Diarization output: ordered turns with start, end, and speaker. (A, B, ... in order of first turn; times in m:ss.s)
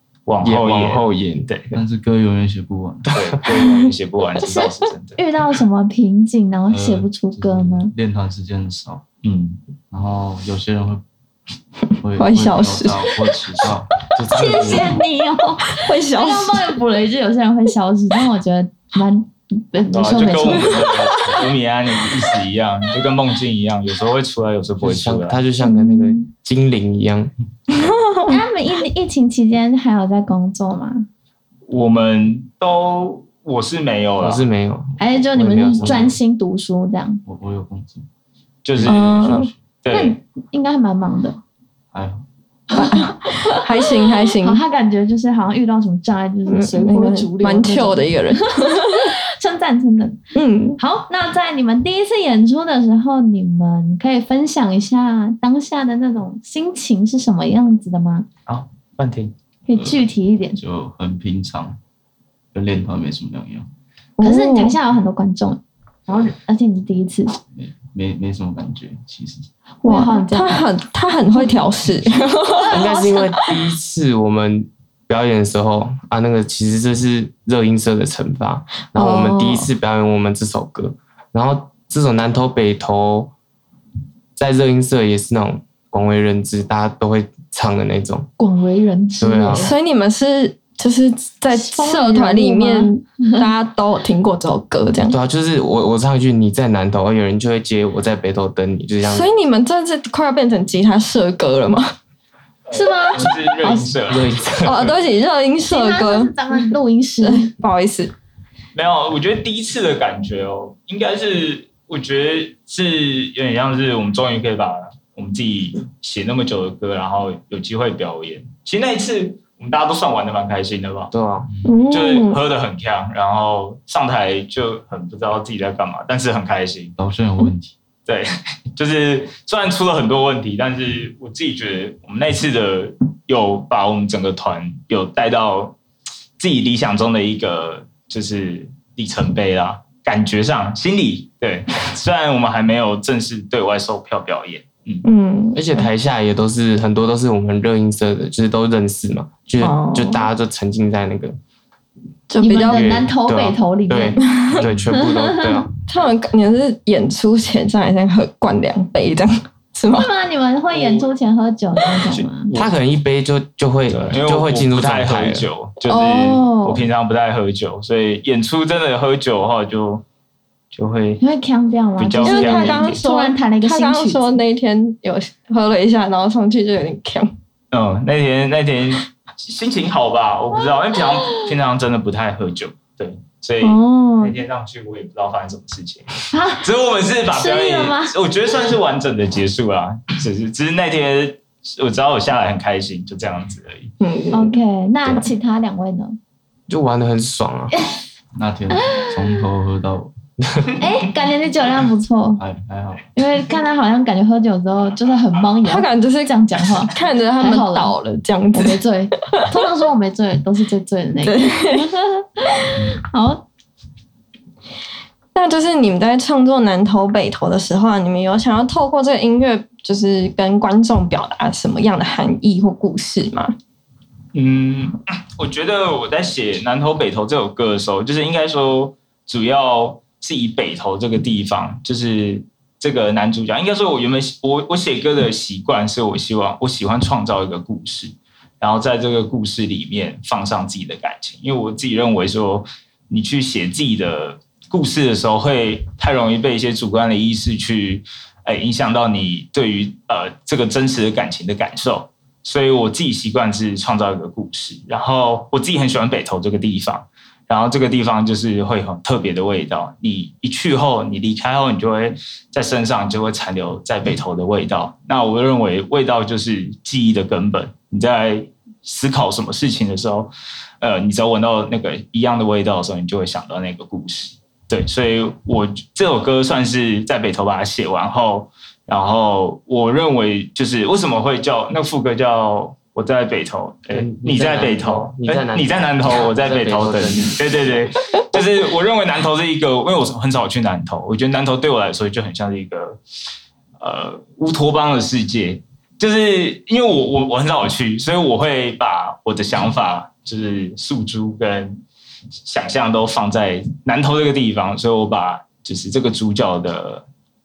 0:00.3-0:01.7 A
0:00.4-0:01.5 B
0:01.7-0:03.1 C
0:03.2-0:05.2 A
0:04.4-0:07.9 D
0:06.7-0:09.0 C
0:09.2-0:09.6 A
0:09.9-0:11.0 C
0:12.0-0:14.9 C
0:12.2-0:13.1 E
0:14.3-0:21.0 D
0:14.3-0:14.9 B
0:15.7-0:16.7 E
0:19.9-0:25.4 A
0:20.3-0:21.4 E
0:24.8-0:27.3 B
0:25.6-0:26.3 D
0:27.7-0:28.4 E
0:28.3-0:31.1 D
0:31.7-0:34.4 A
0:34.2-0:36.0 B
0:35.0-0:37.2 D
0:35.1-0:36.2 C
0:37.2-0:38.1 C
0:38.6-0:39.2 A
0:38.8-0:39.6 C
0:38.9-0:39.5 E
0:39.8-0:40.2 A
0:39.9-0:41.4 D
0:41.9-0:42.2 C
0:42.7-0:43.6 D
0:42.8-0:44.6 E
0:44.4-0:48.1 D
0:46.5-0:49.1 E
0:48.7-0:50.2 D
0:50.4-0:50.8 E
0:50.8-0:58.3 D
0:58.5-0:59.3 A
0:59.7-1:00.6 D
0:59.7-1:00.0 C
1:00.6-1:01.8 C
1:02.5-1:03.7 C
1:04.2-1:04.8 E
1:04.2-1:07.3 D
1:07.5-1:09.5 C
1:09.8-1:10.7 D
1:09.8-1:12.9 E
1:11.3-1:11.6 D
1:12.5-1:13.4 D
1:12.7-1:23.3 B
1:19.0-1:19.7 E
1:24.4-1:28.3 B
1:28.4-1:29.7 D
1:29.2-1:29.7 B
1:29.5-1:35.2 E
1:31.5-1:33.5 D
1:35.1-1:39.3 B
1:39.1-1:41.9 E
1:42.7-1:44.9 A
1:42.7-1:43.3 D
1:44.1-1:44.9 B
1:44.6-1:46.7 E
1:45.7-1:47.5 D
1:47.2-1:48.1 E
1:48.8-2:01.1 A
2:01.1-2:01.5 B
2:01.5-2:01.8 C
2:01.7-2:02.4 E
2:01.9-2:07.0 A
2:07.0-2:07.8 C
2:08.1-2:15.8 A
2:16.4-2:25.0 A
2:25.0-2:25.9 E
2:25.5-2:31.4 B
2:29.6-2:30.2 E
2:32.3-2:32.9 E
2:32.4-2:34.2 D
2:32.5-2:35.7 B
2:34.4-2:34.7 E
2:35.0-2:35.6 D
2:35.9-2:40.1 E
2:39.9-2:42.5 D
2:40.7-2:41.1 A
2:42.2-2:42.7 A
2:42.6-2:45.5 B
2:43.9-2:50.0 A
2:45.9-2:46.7 D
2:45.9-2:46.7 E
2:50.7-2:51.2 A
2:51.2-2:54.4 D
2:52.0-2:53.0 A
2:52.2-2:57.3 E
2:57.7-3:13.9 A
3:00.5-3:01.4 D
3:03.6-3:04.4 E
3:06.3-3:06.7 D
3:07.3-3:08.2 D
3:14.0-3:14.6 E
3:14.3-3:16.2 D
3:16.7-3:17.7 B
3:18.3-3:20.1 C
3:18.8-3:19.2 D
3:20.8-3:22.4 D
3:22.4-3:23.1 C
3:23.2-3:28.0 D
3:25.6-3:26.3 E
3:26.8-3:28.8 E
3:28.6-3:33.4 D
3:31.2-3:31.8 E
3:35.4-3:43.6 E
3:44.3-4:53.0 A
4:43.9-4:47.8 B
4:53.8-5:01.8 A
5:02.4-5:07.1 A